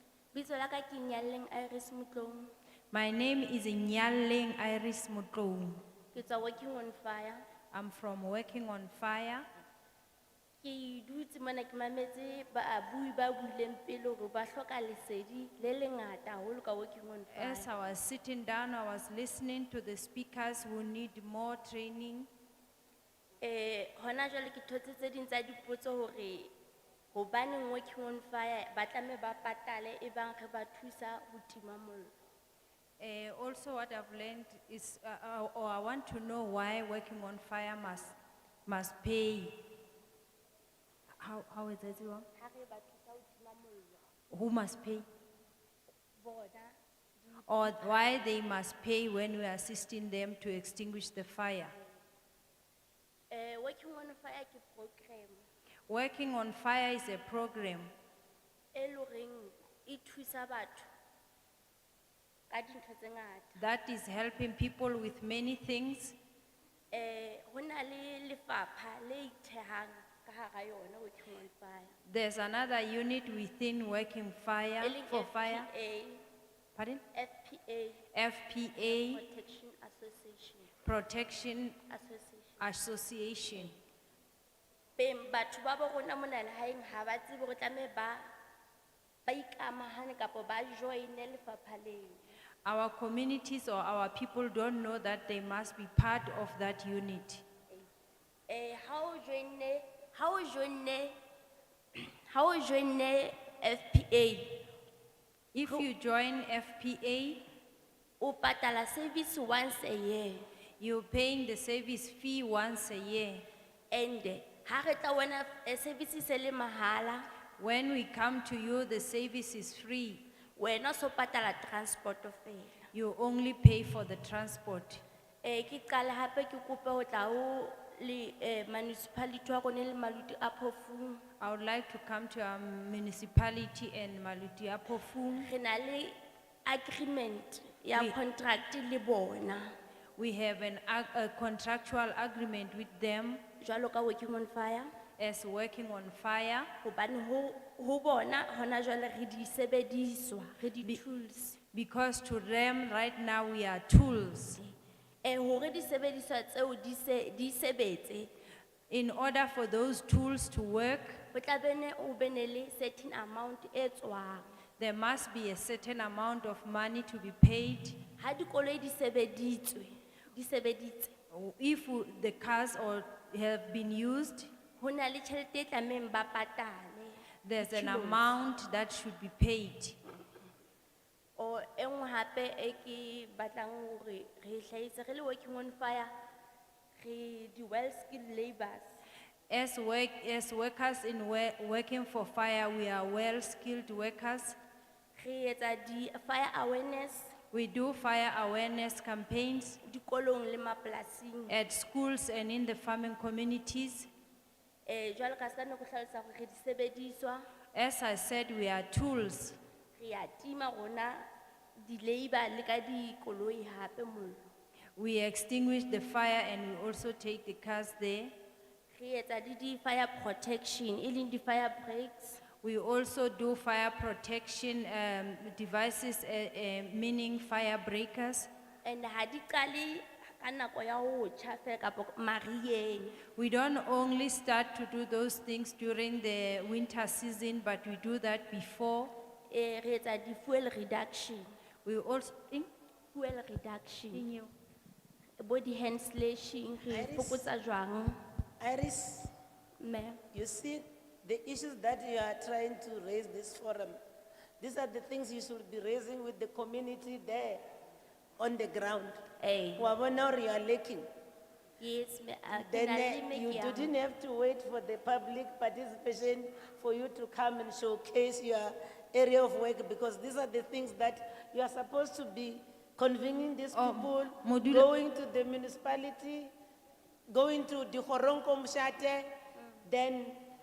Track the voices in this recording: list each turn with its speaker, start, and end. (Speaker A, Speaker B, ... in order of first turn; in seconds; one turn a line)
Speaker A: 0.3-2.5
Speaker B: 2.9-5.8
Speaker A: 6.1-7.4
Speaker B: 7.7-9.5
Speaker A: 10.6-17.7
Speaker B: 17.3-22.3
Speaker A: 23.4-26.5
Speaker A: 27.1-32.1
Speaker B: 33.0-39.6
Speaker B: 41.2-42.3
Speaker A: 42.4-44.0
Speaker B: 44.3-45.0
Speaker A: 46.2-48.3
Speaker B: 47.5-51.7
Speaker A: 53.3-55.4
Speaker B: 55.9-57.9
Speaker A: 58.7-60.9
Speaker A: 62.5-63.6
Speaker B: 63.6-66.2
Speaker A: 66.9-71.9
Speaker B: 72.1-75.7
Speaker A: 74.8-76.2
Speaker B: 76.8-77.0
Speaker A: 77.1-78.0
Speaker B: 78.1-79.2
Speaker A: 78.8-80.7
Speaker B: 80.8-81.8
Speaker A: 81.9-82.6
Speaker B: 82.6-83.8
Speaker A: 85.0-88.2
Speaker A: 89.3-92.2
Speaker B: 92.7-97.4
Speaker A: 98.5-101.2
Speaker A: 102.0-104.7
Speaker B: 105.5-107.4
Speaker A: 108.2-110.5
Speaker B: 110.8-113.5
Speaker A: 113.9-117.3
Speaker B: 117.6-120.2
Speaker A: 120.6-122.9
Speaker B: 122.9-125.0
Speaker A: 125.4-131.2
Speaker B: 131.4-135.5
Speaker A: 135.4-136.2
Speaker A: 136.7-139.7
Speaker B: 140.2-143.4
Speaker A: 143.6-144.9
Speaker B: 145.2-146.7
Speaker A: 146.8-151.6
Speaker B: 151.7-154.6
Speaker A: 155.2-158.3
Speaker B: 158.9-161.2
Speaker A: 161.3-164.5
Speaker B: 164.8-168.0
Speaker A: 168.2-171.1
Speaker B: 171.3-174.5
Speaker A: 174.8-178.3
Speaker B: 177.4-180.0
Speaker A: 181.4-186.1
Speaker A: 187.0-188.8
Speaker B: 189.5-194.6
Speaker A: 195.2-197.3
Speaker B: 197.5-199.8
Speaker A: 199.8-201.6
Speaker B: 201.5-204.1
Speaker A: 204.9-207.4
Speaker B: 207.7-209.6
Speaker A: 210.0-211.3
Speaker A: 211.8-214.5
Speaker B: 215.0-218.3
Speaker A: 218.9-222.4
Speaker B: 222.6-228.5
Speaker A: 228.8-233.2
Speaker B: 233.3-239.1
Speaker A: 239.5-241.5
Speaker B: 241.8-242.7
Speaker A: 243.1-244.3
Speaker B: 244.1-244.5
Speaker A: 245.4-248.2
Speaker C: 246.9-247.5
Speaker C: 248.6-249.3
Speaker A: 249.8-250.2
Speaker C: 250.3-254.0
Speaker C: 254.6-257.7
Speaker C: 258.4-259.2
Speaker A: 259.4-259.9
Speaker C: 259.8-261.1
Speaker A: 261.8-263.9
Speaker C: 262.5-276.5
Speaker B: 273.7-274.9
Speaker C: 277.3-279.3
Speaker C: 279.9-280.4